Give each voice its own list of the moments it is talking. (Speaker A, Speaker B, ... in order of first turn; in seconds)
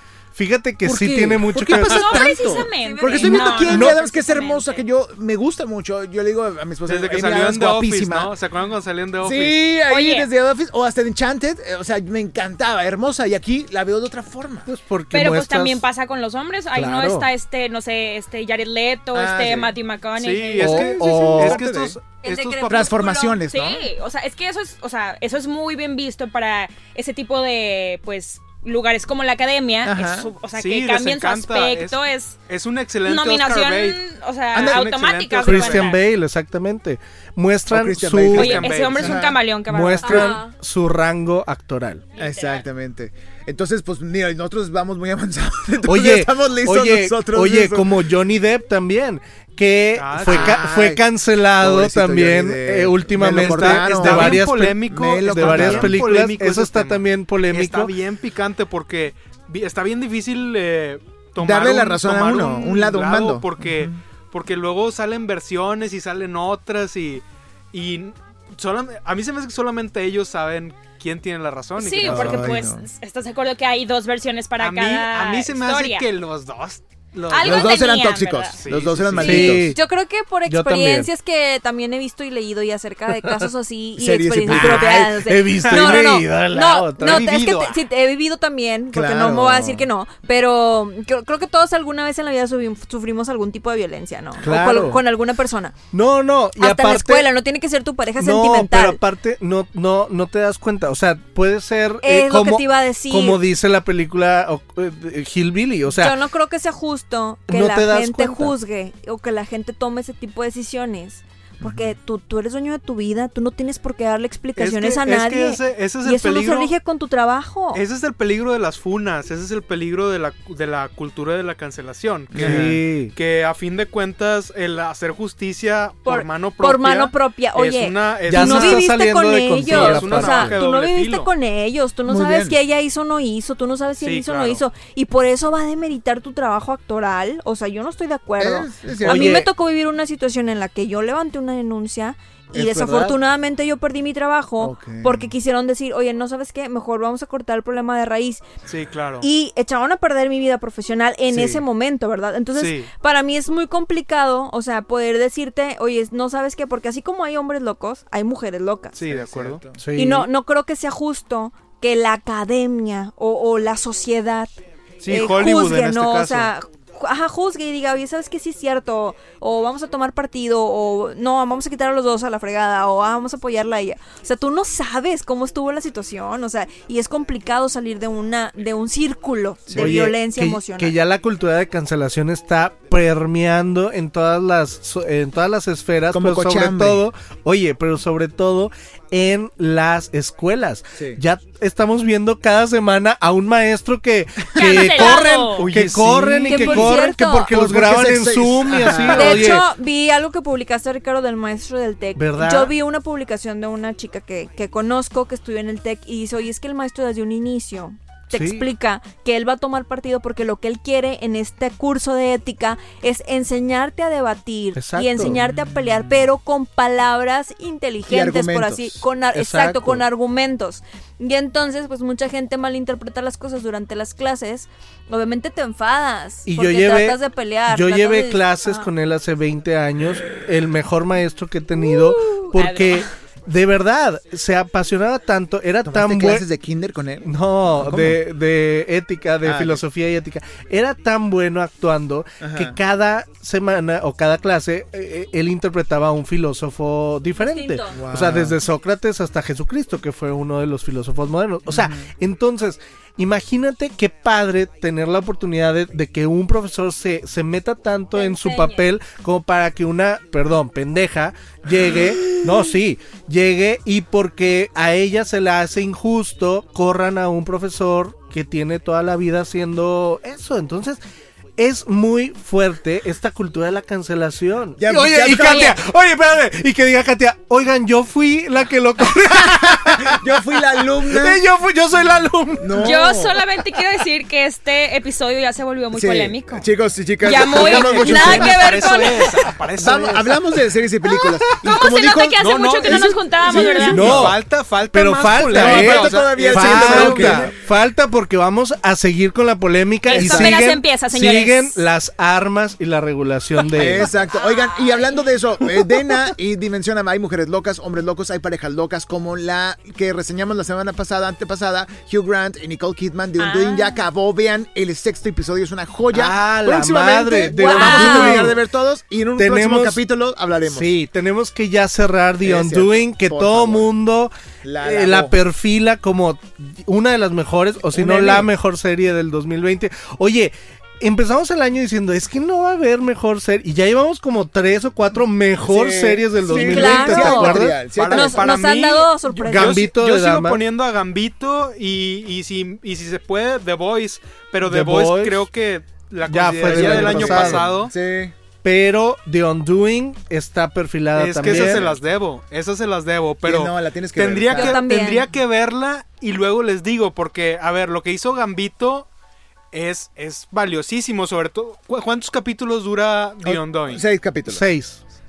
Speaker A: 0.3-2.3, 14.7-15.8, 16.7-17.3, 20.6-21.6, 35.4-38.6, 39.7-42.0, 45.8-57.9, 79.2-79.8, 80.5-81.1, 83.1-83.5, 84.5-87.4, 94.4-95.0, 95.9-97.3, 98.2-106.2, 107.5-108.5, 122.4-123.1, 128.3-130.6, 139.0-139.5, 142.5-143.2, 159.7-160.3, 179.7-199.7, 202.2-202.7, 208.3-208.7, 214.7-215.4, 219.3-220.0, 226.4-236.5, 237.2-271.0, 271.6-282.9, 293.9-304.1, 316.1-318.6, 319.4-320.0, 320.6-337.8, 339.5-340.6, 344.6-345.5, 346.2-347.7, 348.6-351.9, 364.5-365.0
Speaker B: 0.8-8.3, 9.2-14.7, 19.1-19.7, 20.6-22.0, 22.7-23.8, 29.8-30.3, 34.5-34.9, 37.7-39.4, 42.2-48.0, 50.2-51.0, 51.5-56.0, 61.4-64.0, 72.0-72.8, 77.4-79.7, 84.0-85.1, 88.9-89.9, 111.6-111.9, 122.3-122.8, 132.1-132.6, 138.4-139.4, 144.6-145.3, 151.3-151.6, 159.0-159.8, 186.1-187.0, 197.5-199.6, 218.1-219.0, 235.8-238.2, 239.4-239.8, 242.4-242.8, 247.9-248.6, 251.7-252.1, 274.8-275.8, 279.4-281.4, 282.6-283.4, 285.9-289.1, 289.8-294.4, 295.5-297.5, 300.1-300.6, 303.7-320.9, 322.4-323.9, 324.6-325.3, 327.9-328.5, 335.6-338.6, 346.6-348.3, 351.4-352.0, 353.4-354.8, 363.4-364.6
Speaker C: 1.7-4.8, 9.9-10.3, 15.1-20.8, 23.5-32.4, 33.0-36.0, 38.3-40.4, 42.2-42.6, 71.8-76.1, 77.3-78.6, 194.5-195.7, 232.5-233.1, 275.3-275.8, 282.8-286.7, 287.2-289.4, 291.6-294.2, 300.1-301.8, 304.3-305.2, 313.4-314.0
Speaker D: 2.2-4.3, 22.2-23.4, 40.0-40.5, 79.2-95.7, 96.6-99.0, 102.0-103.4, 105.9-117.8, 126.0-148.4, 149.2-159.0, 159.9-164.5, 165.1-180.9, 196.5-197.5, 198.9-228.9, 231.9-232.4, 247.4-247.9, 258.2-258.8, 317.5-318.5, 336.5-339.8, 354.5-355.3
Speaker E: 6.8-9.6, 20.2-23.0, 30.5-32.0, 32.5-34.0, 34.5-35.9, 38.3-39.2, 50.0-50.6, 53.2-72.6, 74.6-78.0, 78.6-79.7, 85.6-86.2, 87.0-87.8, 114.5-116.7, 117.7-128.9, 129.6-131.3, 134.0-134.6, 148.7-149.3, 152.5-152.9, 158.9-159.6, 165.0-166.5, 195.4-196.9, 287.4-290.5, 292.4-297.5, 337.9-347.9, 351.1-359.1, 359.7-364.0